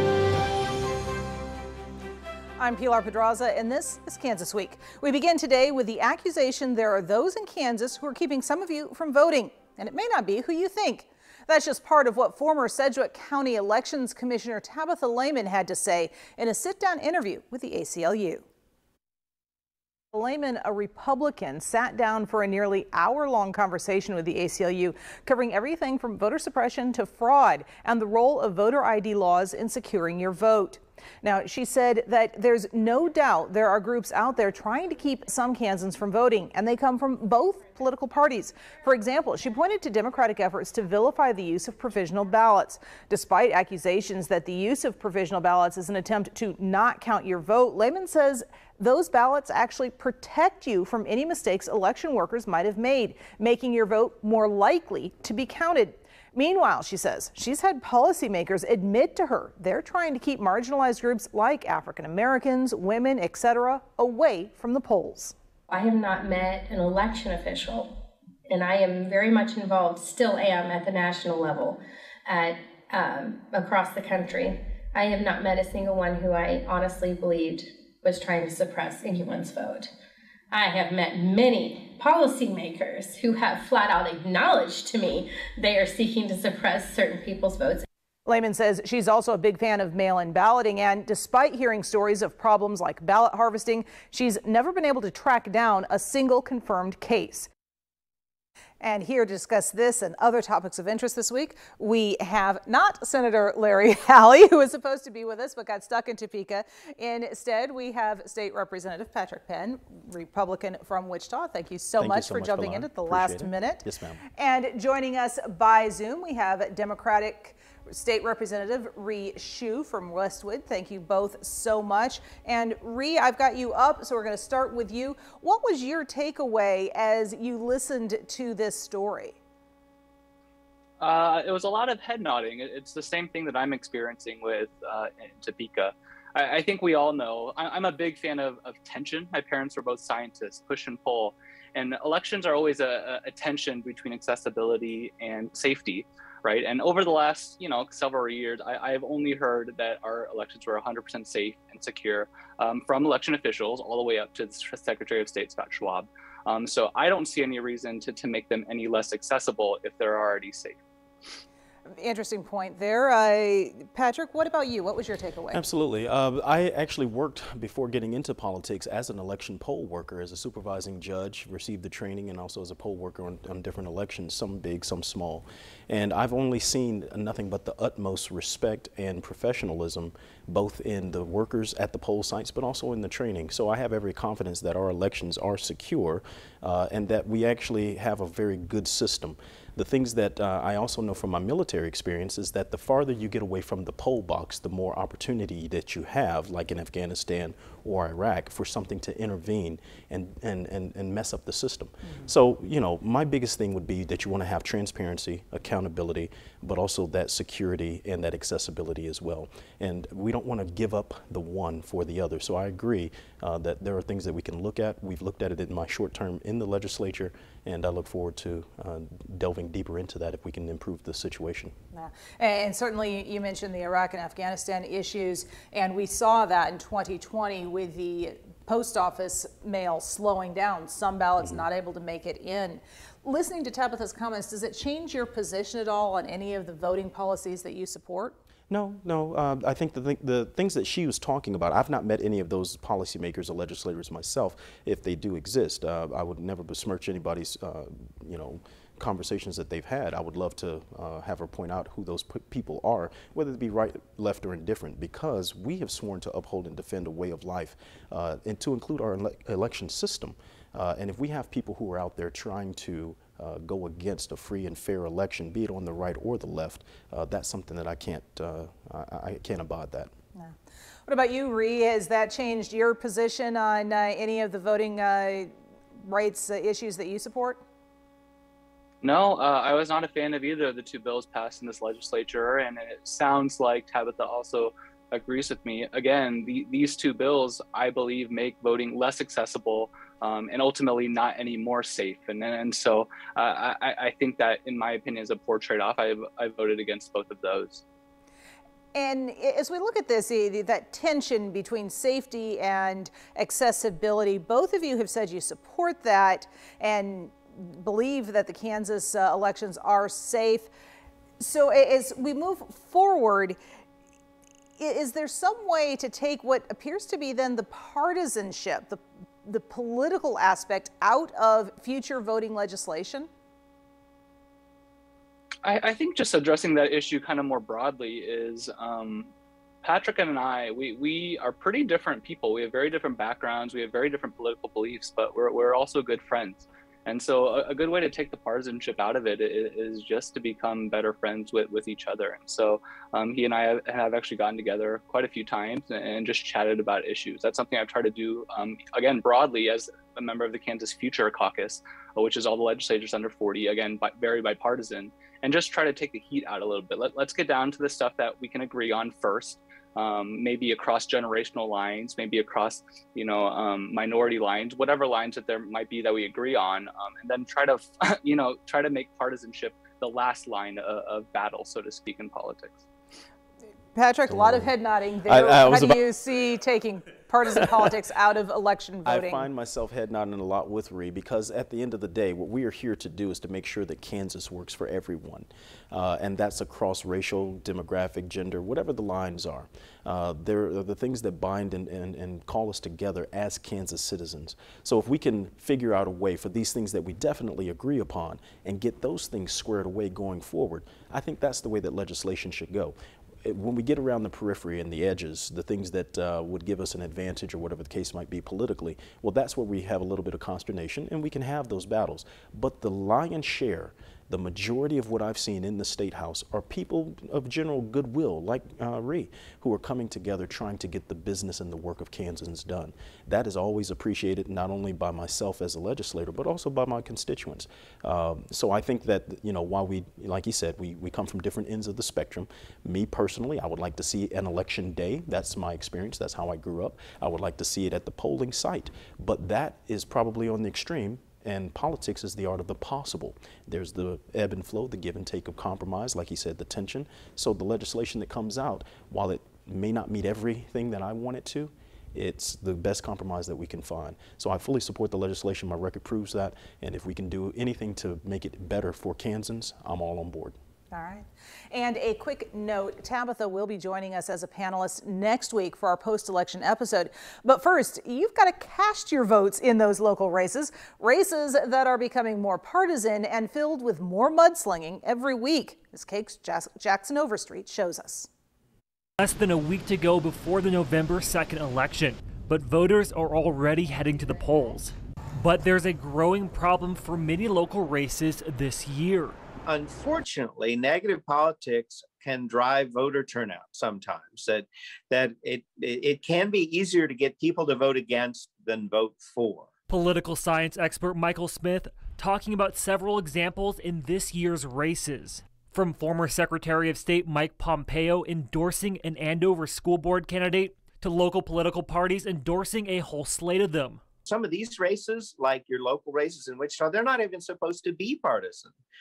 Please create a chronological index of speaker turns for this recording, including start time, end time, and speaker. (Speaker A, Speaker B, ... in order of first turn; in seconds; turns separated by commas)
Speaker A: 2.6-18.5, Speaker A: 20.1-65.3, Speaker B: 65.7-67.9, Speaker B: 68.5-79.9, Speaker B: 80.5-87.9, Speaker A: 88.3-97.5, Speaker A: 98.8-113.8, Speaker C: 112.0-114.2, Speaker A: 114.4-129.4, Speaker D: 131.0-160.8, Speaker A: 162.0-165.6, Speaker C: 165.5-221.8, Speaker A: 221.9-238.4, Speaker C: 238.7-270.1, Speaker A: 271.1-277.6, Speaker D: 279.0-297.8, Speaker A: 298.9-310.7, Speaker A: 311.4-313.6, Speaker A: 314.8-323.3, Speaker D: 325.6-329.3, Speaker D: 329.8-372.8, Speaker A: 373.9-379.5, Speaker C: 374.3-374.7, Speaker C: 375.2-376.0, Speaker C: 379.1-460.6, Speaker A: 460.9-478.3, Speaker E: 479.2-489.4, Speaker F: 489.7-499.7, Speaker E: 499.9-514.0, Speaker F: 514.3-518.8